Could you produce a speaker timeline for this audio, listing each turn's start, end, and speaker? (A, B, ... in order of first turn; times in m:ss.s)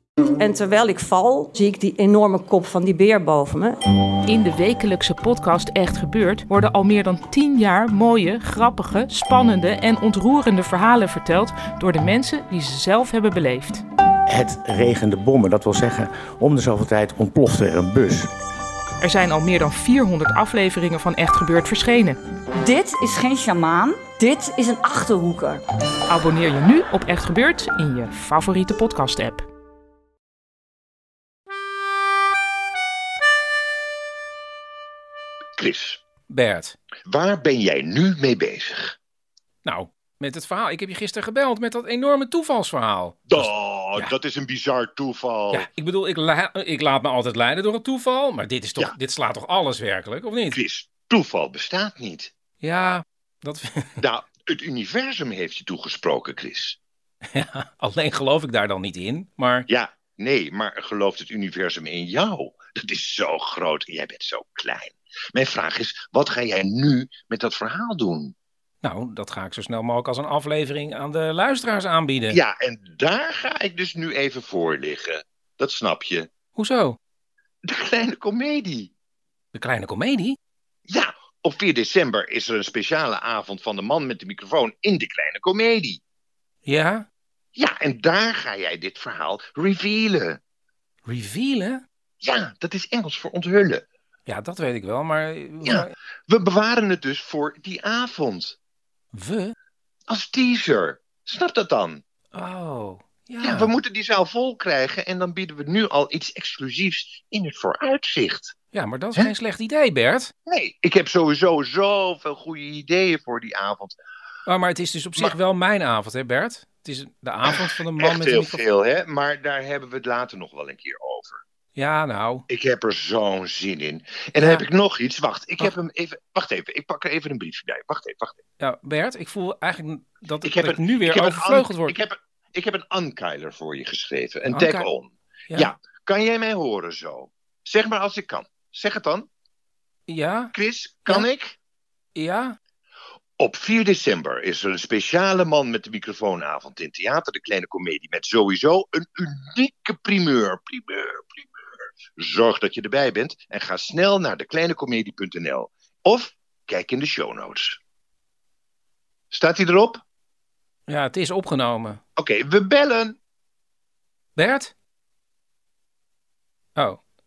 0:00.4-0:03.8 A
0:04.3-0:13.8 B
0:14.3-0:18.3 C
0:19.0-0:22.2 B
0:22.6-0:25.6 D
0:26.1-0:29.4 B
0:35.6-0:36.0 E
0:36.3-0:36.8 F
0:37.1-0:39.0 E
0:39.6-0:44.1 F
0:43.3-0:45.7 E
0:45.5-0:50.6 F
0:50.5-0:52.3 E
0:52.6-0:54.0 F
0:54.0-0:56.8 E
0:57.3-0:59.7 F
0:59.7-1:08.3 E
1:08.8-1:12.4 F
1:12.3-1:16.3 E
1:16.6-1:17.0 F
1:17.7-1:18.9 E
1:19.5-1:20.4 F
1:20.9-1:26.0 E
1:26.6-1:27.0 F
1:27.6-1:30.4 E
1:31.1-1:31.8 F
1:32.2-1:33.8 E
1:34.3-1:35.9 F
1:35.6-1:38.6 E
1:39.1-1:39.5 F
1:40.1-1:42.0 E
1:42.3-1:43.7 F
1:43.4-1:48.5 E
1:48.7-1:50.3 F
1:50.5-1:54.0 E
1:54.5-1:58.6 F
1:57.5-2:01.4 E
2:01.8-2:02.5 F
2:02.5-2:08.4 E
2:04.4-2:04.6 F
2:08.6-2:12.0 F
2:10.4-2:19.3 E
2:14.5-2:14.9 F
2:20.1-2:20.5 F
2:20.5-2:21.6 E
2:22.2-2:22.6 F
2:23.4-2:31.5 E
2:32.2-2:37.8 E
2:39.3-2:40.0 E
2:40.9-2:42.0 F
2:42.2-2:43.2 E
2:44.4-2:44.7 F
2:46.8-2:47.0 F